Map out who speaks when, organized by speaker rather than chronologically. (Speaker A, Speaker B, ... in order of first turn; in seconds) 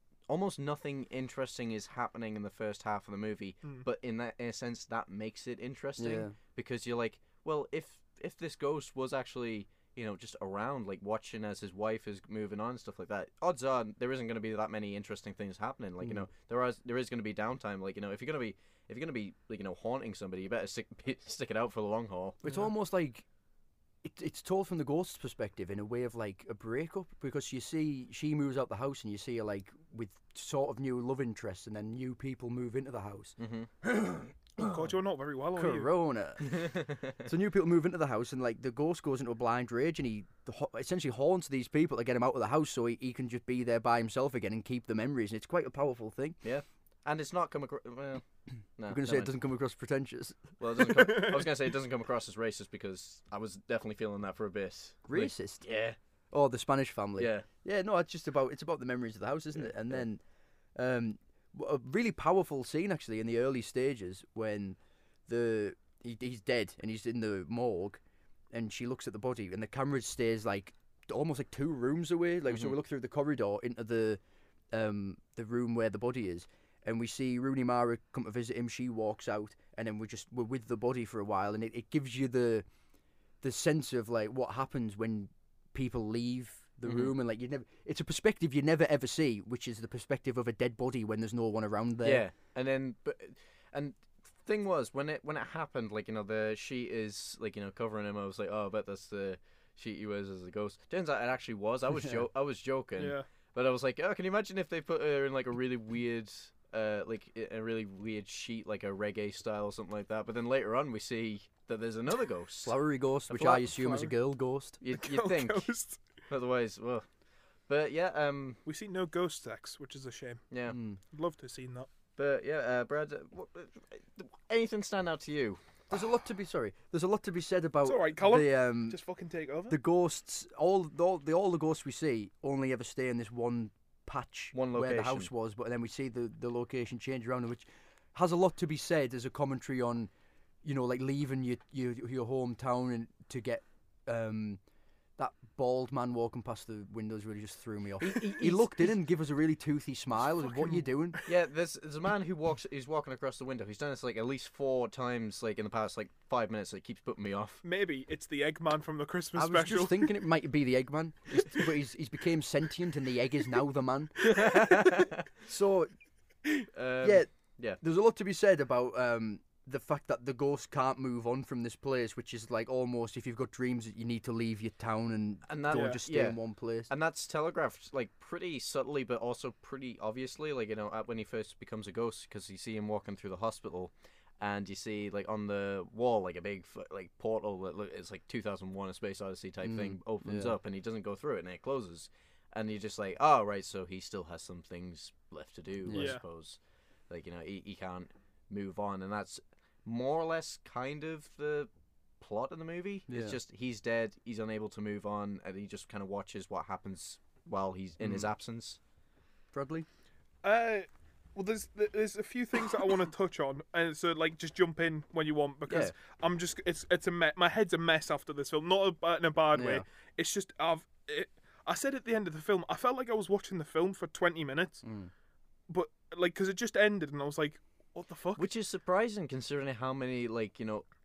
Speaker A: 0.3-22.4, 33.4-33.7, 36.4-37.2, 46.4-48.2, 48.8-49.3, 50.6-56.0, 57.2-57.5, 72.5-72.8, 86.8-87.1, 92.0-112.7, 114.8-115.7, 116.3-117.0, 117.7-118.6, 120.5-120.8, 122.2-125.6, 134.5-135.3, 148.0-148.7, 151.2-157.6, 164.3-165.2, 166.7-167.8, 175.5-196.6, 197.1-201.7, 202.2-208.8, 228.4-230.9
Speaker B: 6.0-6.3, 16.0-16.3, 22.4-23.2, 24.0-34.3, 35.5-46.4, 48.9-51.2, 55.0-55.6, 56.3-60.2, 60.8-68.0, 68.5-74.2, 74.7-82.6, 83.4-92.2, 112.6-114.8, 120.7-121.0, 125.9-129.0, 129.7-140.1, 140.6-144.6, 145.2-151.2, 159.3-164.9, 165.4-165.9, 167.0-176.9, 189.6-190.5, 195.8-196.2, 203.1-203.4, 208.0-208.3, 209.5-209.9, 215.7-215.9, 219.5-219.8, 224.8-225.1
Speaker C: 34.6-35.9, 103.0-103.2, 113.3-114.1, 114.9-116.0, 118.7-120.5, 121.1-121.9, 127.8-129.8, 150.4-150.9, 157.6-160.1, 175.7-176.0, 195.9-196.2, 210.4-224.8, 225.7-228.4